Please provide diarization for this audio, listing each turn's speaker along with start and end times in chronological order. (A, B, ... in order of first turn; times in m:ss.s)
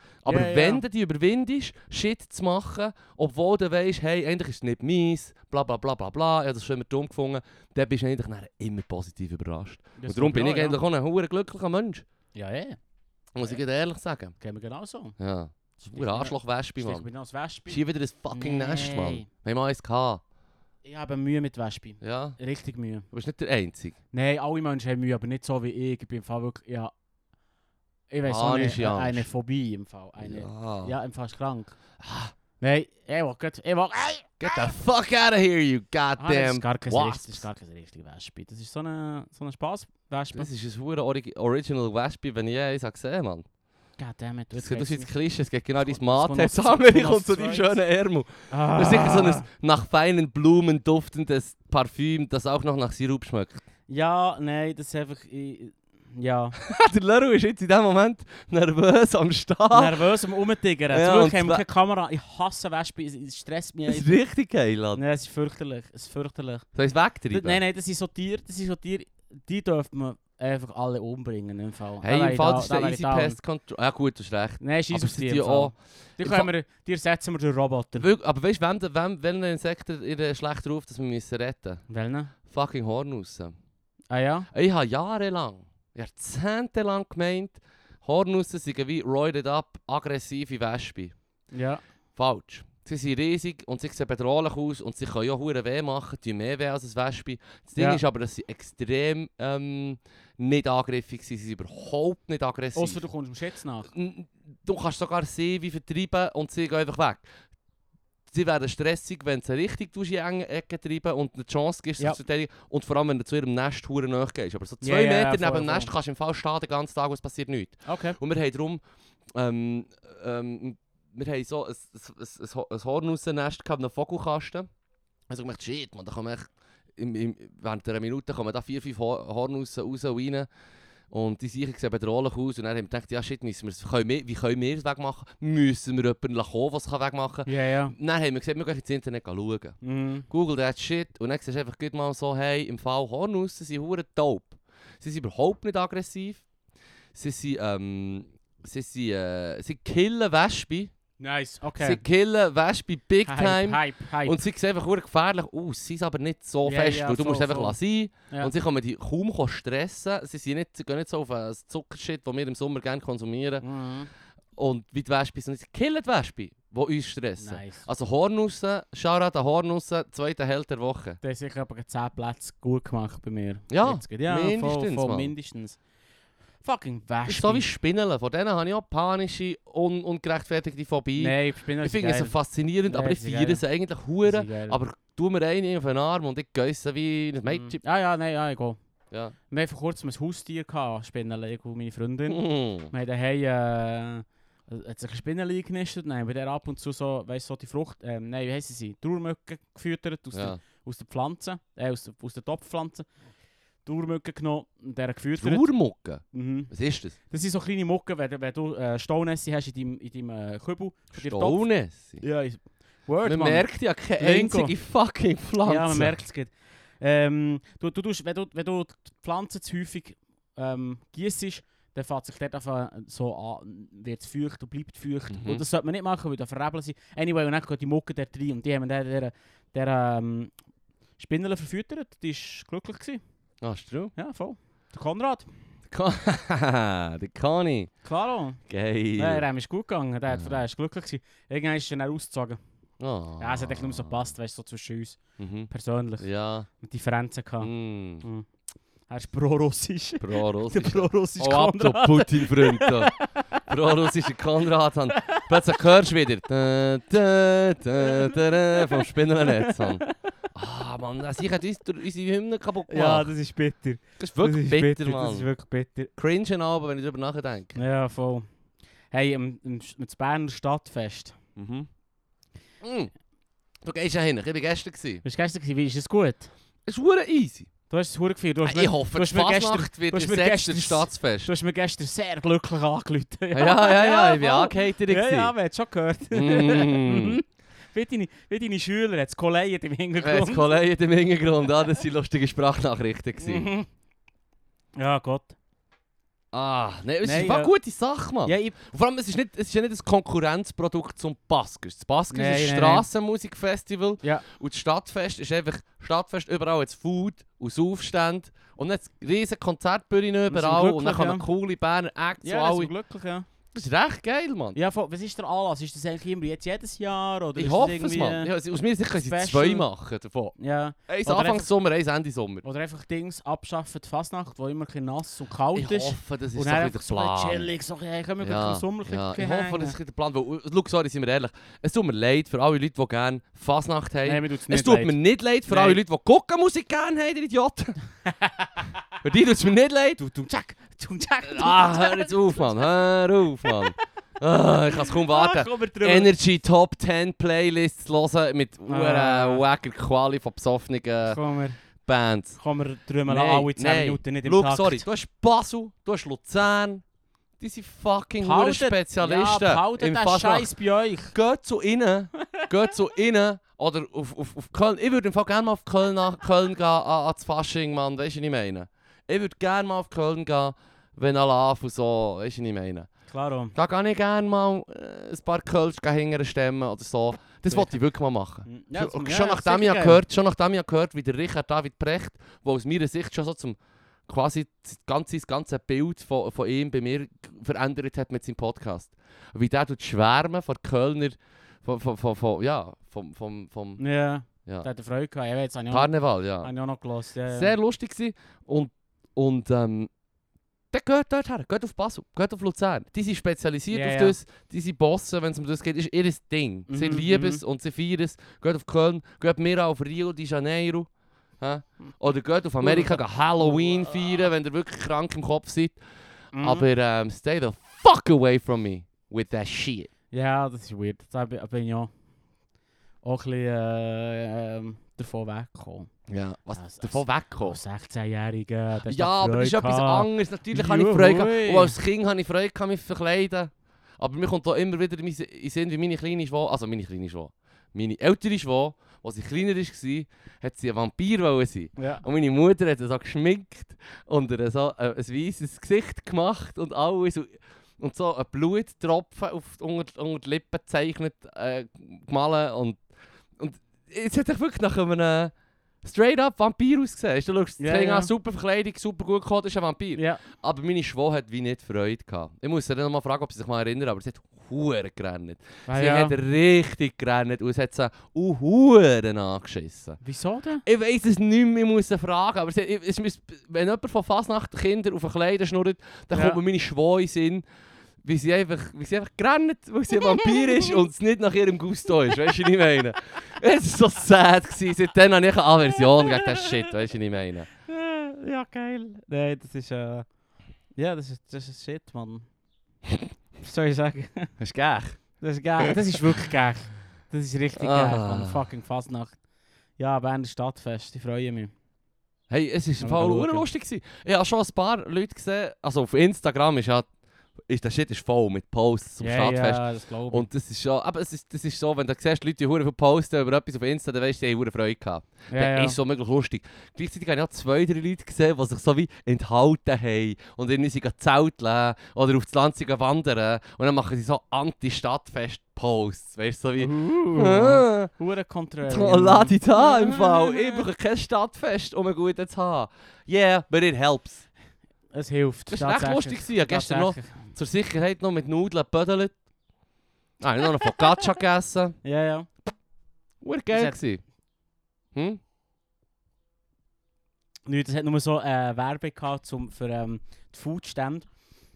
0:00.2-0:12.0 A
0:00.3-0:00.8 B
0:10.0-0:10.8 B
0:12.3-0:12.8 B
0:13.3-0:14.3 A
0:14.4-0:15.2 B
0:15.2-0:17.0 A
0:15.8-0:17.8 B
0:17.7-0:20.2 A
0:18.3-0:19.3 B
0:20.8-0:23.0 B
0:22.0-0:22.4 A
0:23.1-0:24.0 A
0:24.1-0:26.9 B
0:28.1-0:31.7 B
0:28.2-0:29.3 A
0:30.2-0:30.9 A
0:32.0-0:32.3 A
0:32.6-0:34.6 B
0:34.4-0:37.4 A
0:36.2-0:40.5 B
0:40.3-0:43.4 A
0:44.0-0:45.1 B
0:44.5-0:53.6 A
0:45.8-0:47.8 B
0:48.5-0:49.4 B
0:53.9-0:56.6 B
0:56.6-1:00.0 A
0:59.7-1:04.1 B
1:00.9-1:01.6 A
1:03.9-1:05.0 A
1:04.9-1:06.6 B
1:06.7-1:07.6 A
1:07.3-1:13.4 B
1:12.0-1:16.5 A
1:14.6-1:18.1 B
1:18.0-1:21.8 A
1:21.9-1:22.3 B
1:22.4-1:23.5 A
1:24.1-1:24.5 B
1:24.5-1:31.1 A
1:31.5-1:31.8 B
1:32.2-1:43.0 A
1:37.8-1:38.0 B
1:42.7-1:43.9 B
1:43.9-1:47.2 A
1:48.3-1:58.8 A
1:54.8-1:55.9 B
1:57.8-1:58.2 B
1:59.3-2:04.7 A
2:05.3-2:10.5 A
2:11.1-2:19.8 A
2:17.4-2:17.9 B
2:19.8-2:20.3 B
2:20.3-2:26.4 A
2:27.1-2:30.9 A
2:31.2-2:32.0 B
2:31.8-2:43.6 A
2:33.2-2:34.4 B
2:36.6-2:37.8 B
2:43.6-2:44.1 B
2:44.6-2:51.2 A
2:47.4-2:47.9 B
2:51.2-2:55.8 B
2:53.7-2:55.3 A
2:56.6-2:57.6 B
2:57.3-3:07.8 A
3:01.2-3:03.6 B
3:04.2-3:04.8 B
3:07.5-3:08.8 B
3:09.5-3:23.1 B
3:12.3-3:12.9 A
3:20.3-3:20.6 A
3:23.8-3:25.7 B
3:25.4-3:27.1 A
3:26.3-3:26.7 B
3:27.3-3:31.6 B
3:31.1-3:32.2 A
3:32.2-3:34.7 B
3:33.2-3:36.2 A
3:35.6-3:50.5 B
3:45.3-3:45.6 A
3:51.2-3:53.2 B
3:53.6-3:54.1 A
3:54.1-3:55.5 B
3:55.9-3:57.9 A
3:58.0-3:58.6 B
3:58.7-3:59.4 A
3:59.2-4:02.6 B
4:03.0-4:04.3 A
4:03.4-4:06.3 B
4:05.4-4:05.7 A
4:06.2-4:06.7 A
4:06.8-4:08.5 B
4:07.6-4:08.2 A
4:09.1-4:13.6 B
4:10.2-4:13.1 A
4:13.7-4:23.3 A
4:15.1-4:15.5 B
4:18.0-4:20.1 B
4:22.9-4:26.1 B
4:24.2-4:25.5 A
4:26.2-4:27.8 A
4:27.7-4:28.4 B
4:29.1-4:31.4 B
4:31.6-4:31.9 A
4:32.8-4:33.1 A
4:33.8-4:35.2 A
4:35.2-4:36.5 B
4:36.8-4:37.7 A
4:37.9-4:50.7 B
4:38.6-4:41.5 A
4:43.5-4:45.5 A
4:46.3-4:47.4 A
4:50.2-4:53.7 A
4:53.4-4:53.9 B
4:55.0-4:55.6 B
4:56.5-5:12.9 A
4:57.2-4:57.7 B
4:58.4-4:58.8 B
5:02.3-5:03.0 B
5:10.5-5:11.4 B
5:12.4-5:13.5 B
5:13.7-5:14.8 A
5:14.7-5:18.5 B
5:17.6-5:20.5 A
5:19.1-5:19.9 B
5:20.6-5:21.7 B
5:21.1-5:22.6 A
5:22.6-5:30.0 B
5:25.7-5:27.7 A
5:28.4-5:38.0 A
5:34.2-5:35.2 B
5:35.7-5:36.0 B
5:38.2-5:38.9 B
5:39.2-5:40.2 A
5:40.2-5:42.7 B
5:41.4-5:51.4 A
5:43.6-5:44.0 B
5:45.0-5:46.3 B
5:48.9-5:49.6 B
5:51.2-5:51.8 B
5:52.0-5:52.6 A
5:52.6-5:55.0 B
5:53.3-5:57.0 A
5:57.6-6:00.7 A
5:58.4-6:01.3 B
6:01.3-6:13.1 A
6:13.3-6:13.7 B
6:13.7-6:34.0 A
6:17.7-6:17.9 B
6:18.6-6:20.2 B
6:34.0-6:37.7 B
6:35.9-6:36.7 A
6:37.5-6:40.1 A
6:40.9-6:51.1 A
6:43.9-6:44.4 B
6:46.9-6:47.6 B
6:51.6-6:56.0 A
6:52.8-6:54.5 B
6:56.5-6:56.9 B
6:56.6-7:00.1 A
7:00.3-7:02.1 B
7:03.2-7:06.1 B
7:06.3-7:07.8 A
7:06.8-7:12.0 B
7:09.0-7:33.0 A
7:22.0-7:22.2 B
7:33.6-7:50.2 A
7:37.8-7:38.3 B
7:40.2-7:40.4 B
7:45.9-7:46.4 B
7:50.2-7:50.8 B
7:50.8-7:57.6 A
7:56.3-7:56.6 B
7:58.2-8:07.7 A
8:06.0-8:06.8 B
8:07.9-8:10.2 B
8:11.0-8:12.4 B
8:13.6-8:14.5 B
8:14.6-8:15.2 A
8:15.4-8:19.4 B
8:17.8-8:18.6 A
8:20.0-8:21.7 B
8:22.5-8:27.1 A
8:23.0-8:23.6 B
8:27.6-8:48.1 A
8:29.2-8:30.4 B
8:35.5-8:36.0 B
8:46.8-8:50.8 B
8:48.8-8:54.4 A
8:55.1-8:57.5 B
8:55.7-8:59.3 A
9:00.4-9:02.0 A
9:02.0-9:02.5 B
9:03.4-9:04.2 A
9:03.7-9:04.0 B
9:05.1-9:05.4 A
9:07.6-9:11.3 B